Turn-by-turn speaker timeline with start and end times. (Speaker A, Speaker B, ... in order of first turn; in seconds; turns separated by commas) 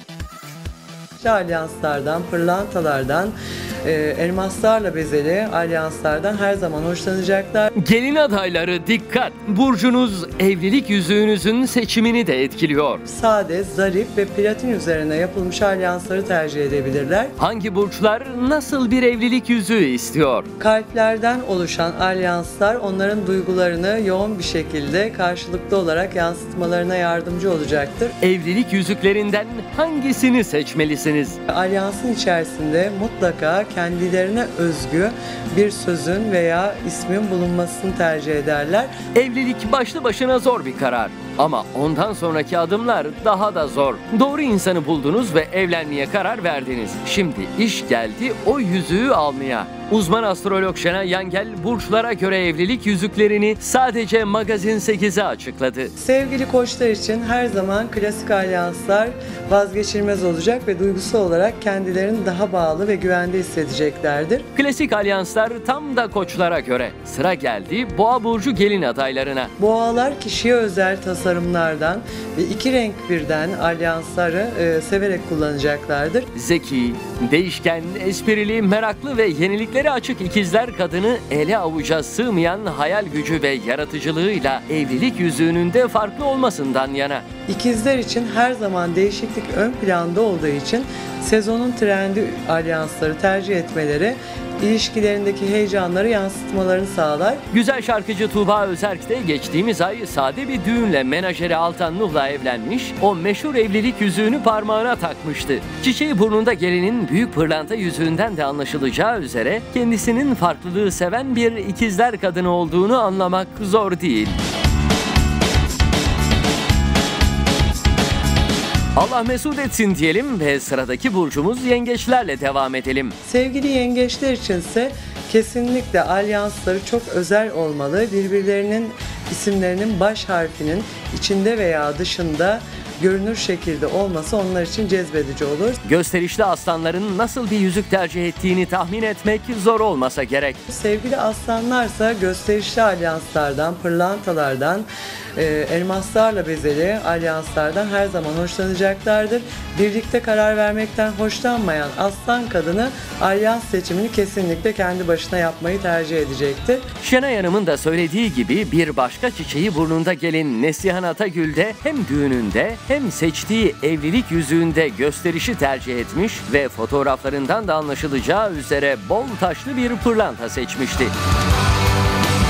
Speaker A: 1.2-7.7, Speaker B: 7.8-13.0, Speaker A: 13.1-17.3, Speaker B: 17.4-20.5, Speaker A: 20.6-28.2, Speaker B: 28.2-31.4, Speaker A: 31.5-39.0, Speaker B: 39.1-55.9, Speaker A: 56.0-64.5, Speaker B: 64.5-69.5, Speaker A: 69.6-76.3, Speaker B: 76.3-87.2, Speaker A: 87.5-97.4, Speaker B: 97.5-114.4, Speaker B: 119.0-123.2, Speaker A: 123.2-135.8, Speaker B: 135.8-140.6, Speaker A: 140.7-156.8, Speaker B: 157.0-171.1